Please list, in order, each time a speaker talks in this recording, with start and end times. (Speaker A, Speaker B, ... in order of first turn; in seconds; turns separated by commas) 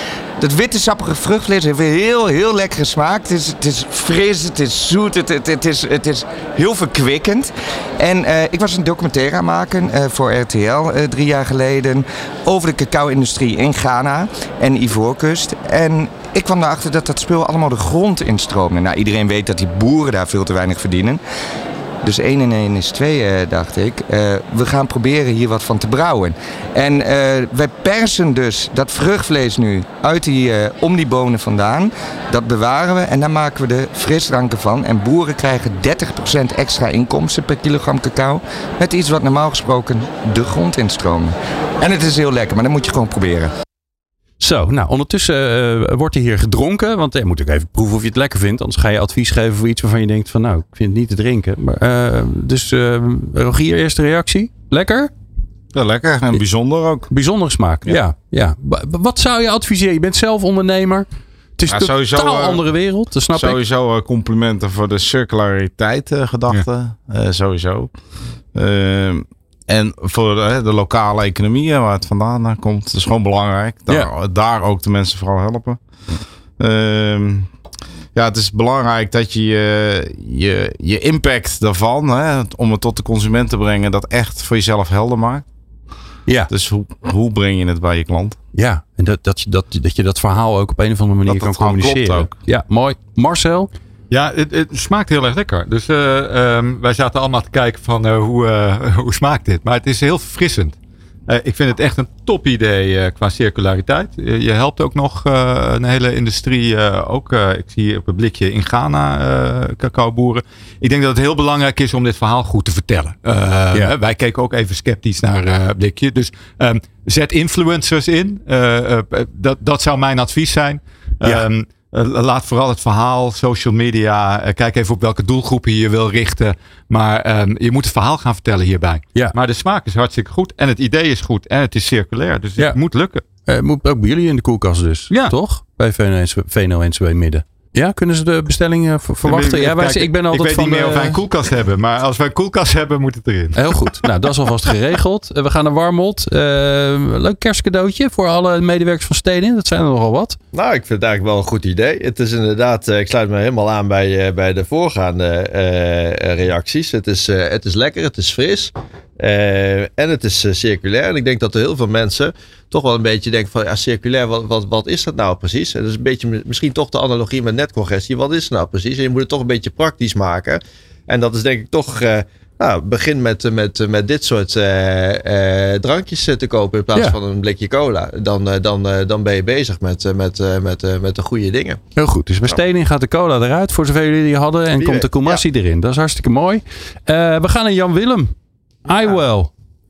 Speaker A: 0.4-21.2, Speaker A: 22.0-43.5, Speaker B: 44.4-55.1, Speaker C: 55.7-57.1, Speaker B: 57.1-63.6, Speaker C: 61.7-62.7, Speaker C: 63.3-68.0, Speaker C: 68.5-75.8, Speaker C: 76.6-77.5, Speaker C: 78.1-85.4, Speaker B: 86.2-86.5, Speaker C: 86.5-88.4, Speaker B: 88.5-93.7, Speaker C: 91.2-92.3, Speaker D: 94.1-100.8, Speaker D: 101.3-133.2, Speaker B: 133.4-141.2, Speaker D: 139.2-143.8, Speaker B: 143.6-150.4, Speaker E: 150.5-181.8, Speaker B: 181.9-188.3, Speaker E: 184.8-185.4, Speaker B: 188.8-189.5